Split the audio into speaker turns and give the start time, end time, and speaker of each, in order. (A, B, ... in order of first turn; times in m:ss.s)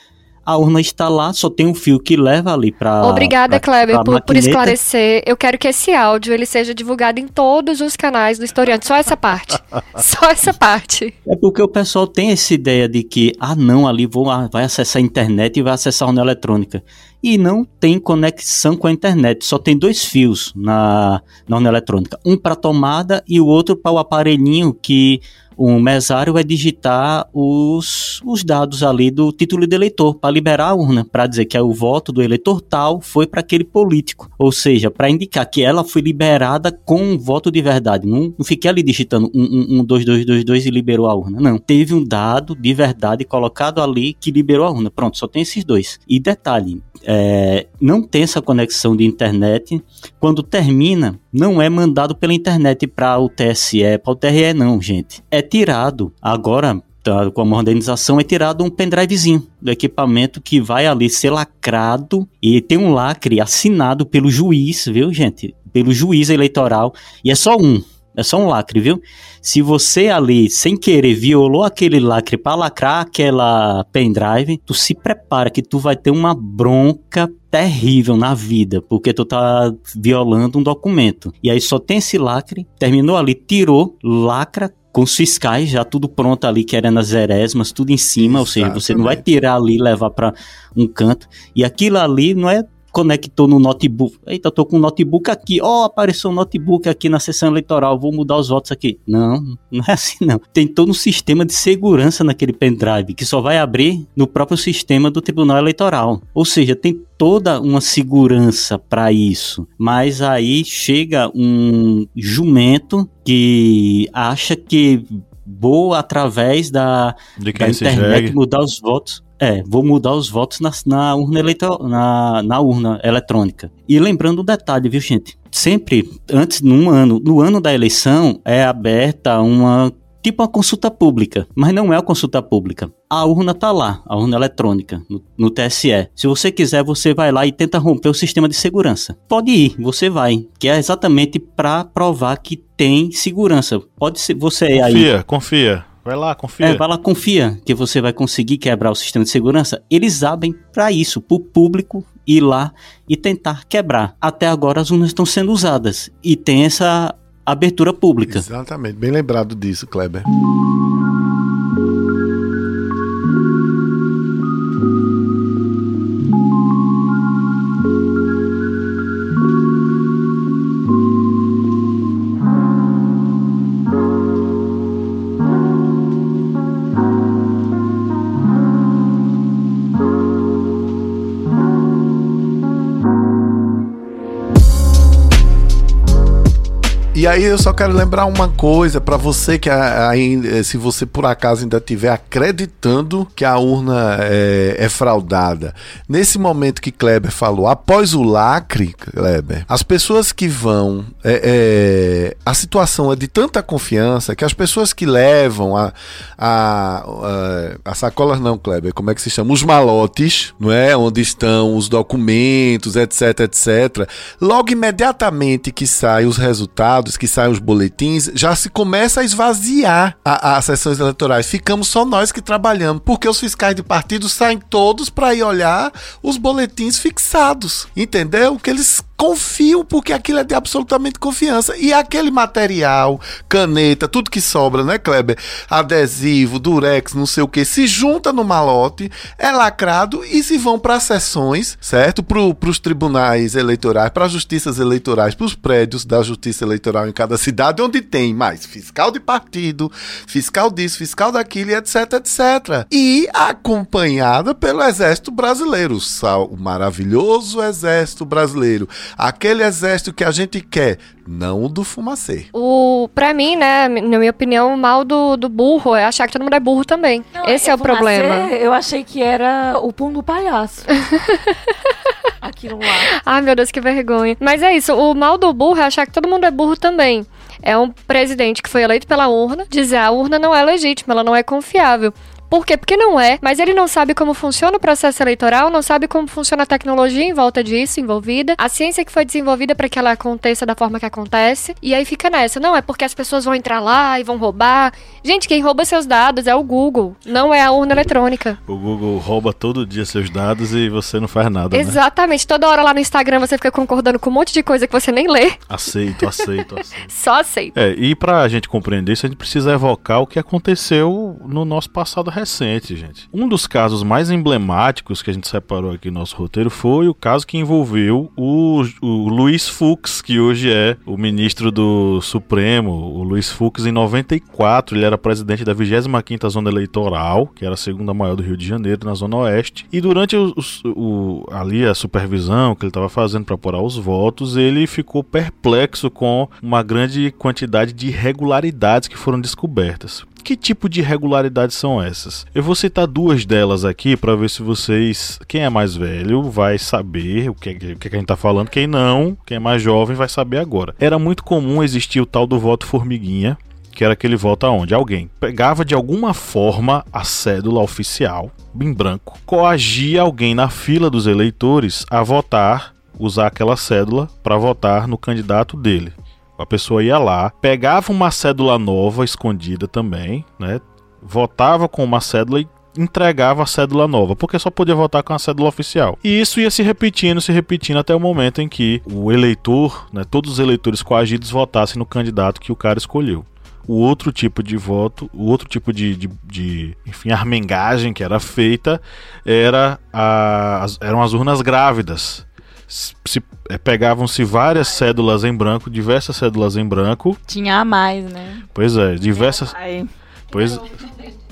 0:00.4-0:04.8 A
0:03.0-0:11.1 B
0:11.2-2:25.1 A
1:28.2-1:29.2 C
1:57.4-1:58.4 D
2:24.7-2:26.8 D
2:26.6-2:38.4 A
2:38.3-2:40.2 C
3:07.1-4:22.5 C
4:22.5-4:28.5 B
4:27.3-4:30.9 E
4:31.0-4:31.7 B
4:32.4-4:33.1 E
4:33.1-4:58.6 B
4:58.6-5:02.0 D
5:01.7-5:05.6 B
5:05.7-5:07.1 D
5:07.0-5:07.7 B
5:07.7-6:37.4 D
6:37.5-6:38.6 E
6:38.7-6:39.7 D
6:39.4-6:40.1 E
6:40.5-6:41.0 D